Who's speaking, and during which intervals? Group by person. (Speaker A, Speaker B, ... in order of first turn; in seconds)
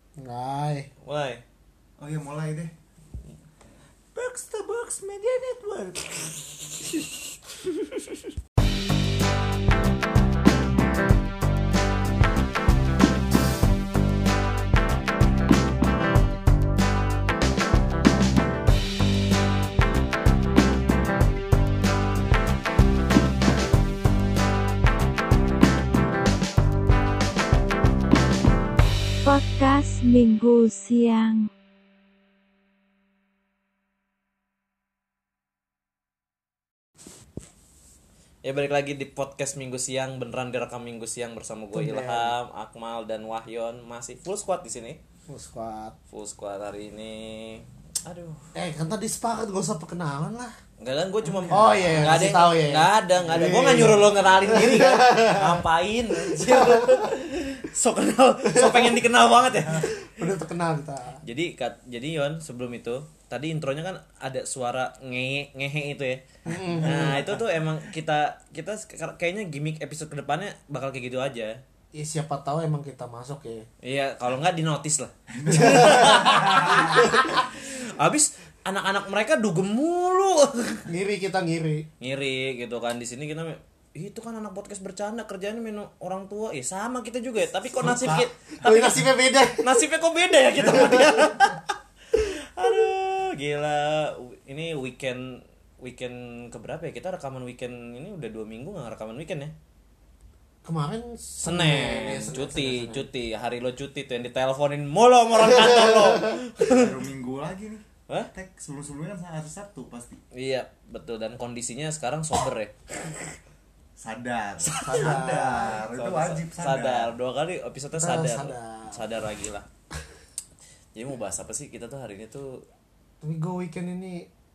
Speaker A: 0.2-0.9, 41.7-42.3, 45.3-46.0, 48.5-50.6, 51.4-55.6, 56.3-57.1, 58.5-59.0, 60.0-61.2, 66.5-67.2, 71.9-73.7, 75.6-76.2, 80.9-81.9, 88.6-89.8, 90.7-91.2, 100.6-103.1, 105.5-106.4, 114.8-115.8, 118.0-119.0, 123.2-124.3
Speaker B: 1.0-1.4, 4.2-7.1, 38.4-45.0, 46.1-48.5, 50.8-59.9, 61.2-66.2, 66.8-71.6, 73.8-80.9, 82.0-88.8, 89.6-99.5, 101.4-106.9, 110.3-112.7, 114.6-119.7, 121.0-122.6
Speaker C: 2.0-2.7, 59.5-59.9, 66.8-67.5, 75.3-77.1, 87.7-89.0, 106.7-110.2, 114.0-117.1
Speaker D: 29.2-31.5